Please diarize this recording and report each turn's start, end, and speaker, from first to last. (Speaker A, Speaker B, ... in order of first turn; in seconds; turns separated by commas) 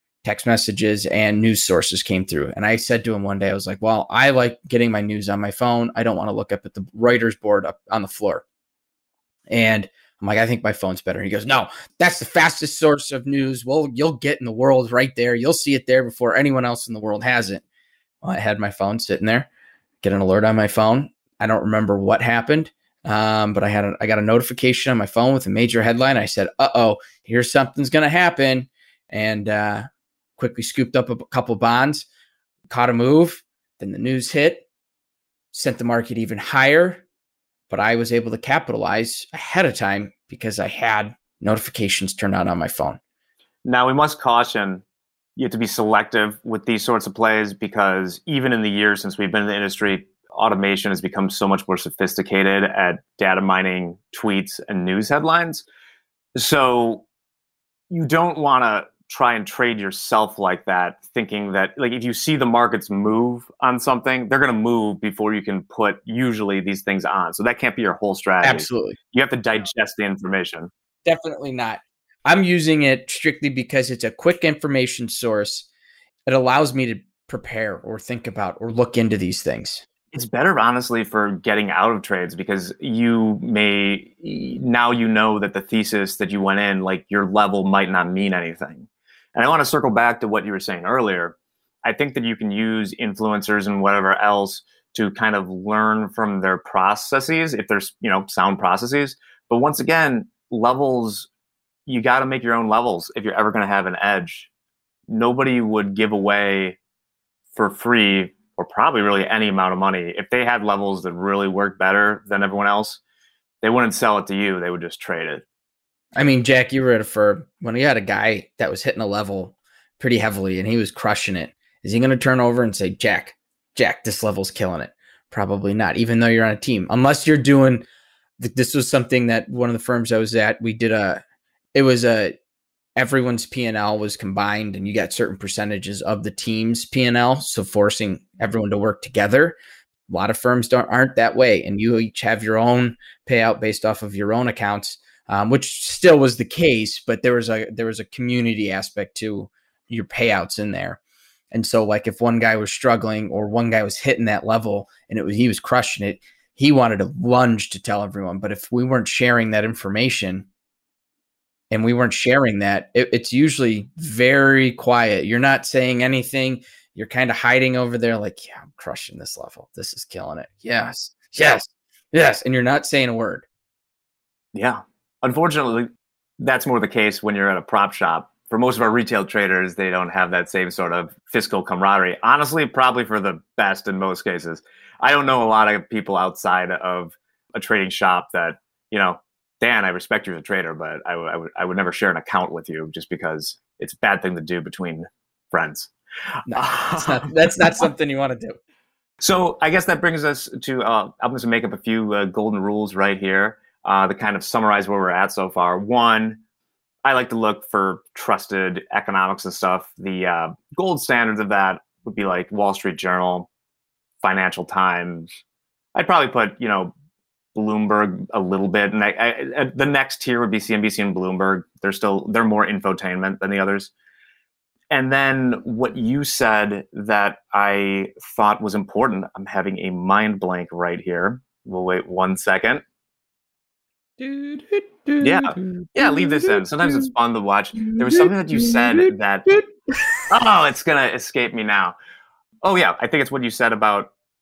Speaker A: 0.2-8.4, Speaker A: 9.5-17.6, Speaker A: 18.2-19.5, Speaker A: 20.0-29.9, Speaker A: 30.4-32.1, Speaker A: 32.7-34.7, Speaker A: 35.5-37.0, Speaker A: 37.7-43.0, Speaker B: 43.7-44.8, Speaker B: 45.4-55.6, Speaker B: 56.4-57.0, Speaker B: 57.9-70.7, Speaker A: 68.4-69.0, Speaker A: 71.0-75.7, Speaker A: 76.3-79.8, Speaker B: 80.1-101.3, Speaker B: 101.9-104.5, Speaker B: 105.1-106.8, Speaker B: 107.5-113.0, Speaker B: 113.6-115.5, Speaker A: 116.2-127.8, Speaker A: 128.4-131.2, Speaker A: 131.8-132.3, Speaker A: 133.0-139.6, Speaker A: 140.1-151.0, Speaker A: 151.5-160.5, Speaker A: 161.7-173.5, Speaker B: 174.5-175.9, Speaker B: 176.4-195.9, Speaker A: 196.5-198.6, Speaker B: 196.5-197.3, Speaker B: 199.2-206.4, Speaker B: 207.1-213.5, Speaker B: 214.2-215.3, Speaker B: 215.9-216.9, Speaker B: 217.6-223.9, Speaker B: 224.9-232.8, Speaker A: 234.2-237.1, Speaker B: 235.2-239.5, Speaker A: 238.0-239.9, Speaker B: 240.3-242.0, Speaker B: 242.6-244.1